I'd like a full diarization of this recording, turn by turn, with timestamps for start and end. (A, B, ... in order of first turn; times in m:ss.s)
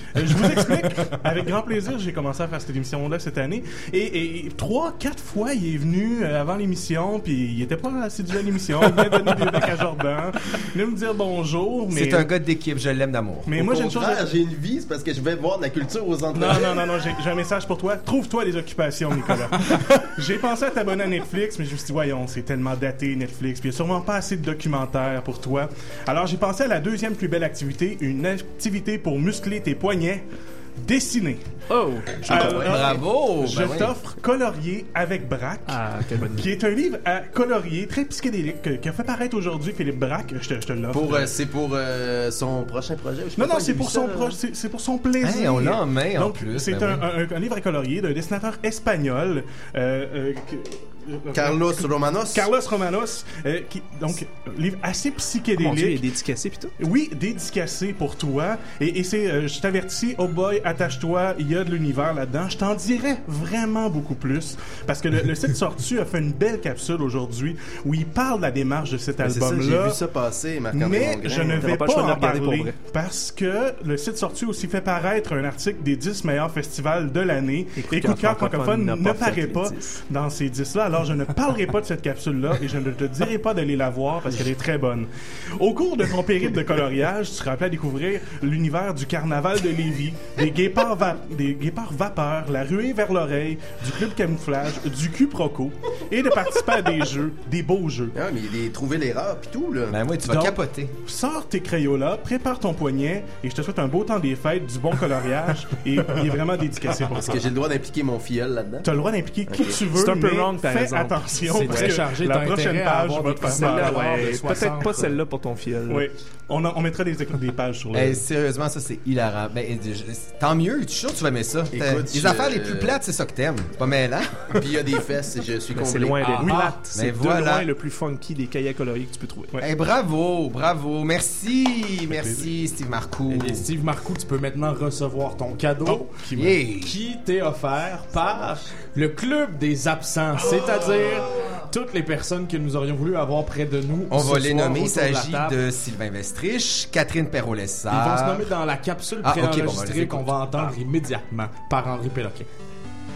0:00.1-0:12.3 A
0:11.9-0:13.5 B
0:13.5-0:14.2 A
0:13.6-0:17.0 C
0:16.3-0:30.2 A
0:30.8-0:31.5 A
0:31.7-0:33.0 D
0:32.2-0:35.8 A
0:32.3-0:33.9 B
0:35.7-0:36.5 D
0:36.3-0:41.3 A
0:40.9-0:44.4 C
0:43.4-0:56.1 A
0:45.2-0:47.0 B
0:51.3-0:52.5 C
0:55.6-0:56.7 D
0:56.8-1:10.0 A
1:09.2-1:11.7 C
1:10.7-1:38.1 A
1:11.3-1:12.8 D
1:17.8-1:20.0 D
1:38.1-1:40.0 C
1:39.9-1:40.9 B
1:40.3-1:47.5 A
1:47.0-1:48.9 C
1:48.8-1:54.3 A
1:49.5-1:49.8 C
1:49.8-1:52.0 D
1:51.6-1:55.2 E
1:53.4-1:56.1 D
1:55.9-1:58.2 A
1:57.9-2:04.6 B
2:01.7-2:03.0 C
2:04.6-2:06.4 C
2:05.7-2:09.6 D
2:06.2-2:06.7 E
2:06.4-2:06.7 A
2:06.9-2:07.6 B
2:09.6-2:13.6 B
2:12.1-2:12.5 A
2:13.3-2:25.6 E
2:15.9-2:16.3 A
2:16.3-2:17.0 B
2:24.1-2:28.5 B
2:27.9-2:32.5 E
2:29.2-2:30.4 B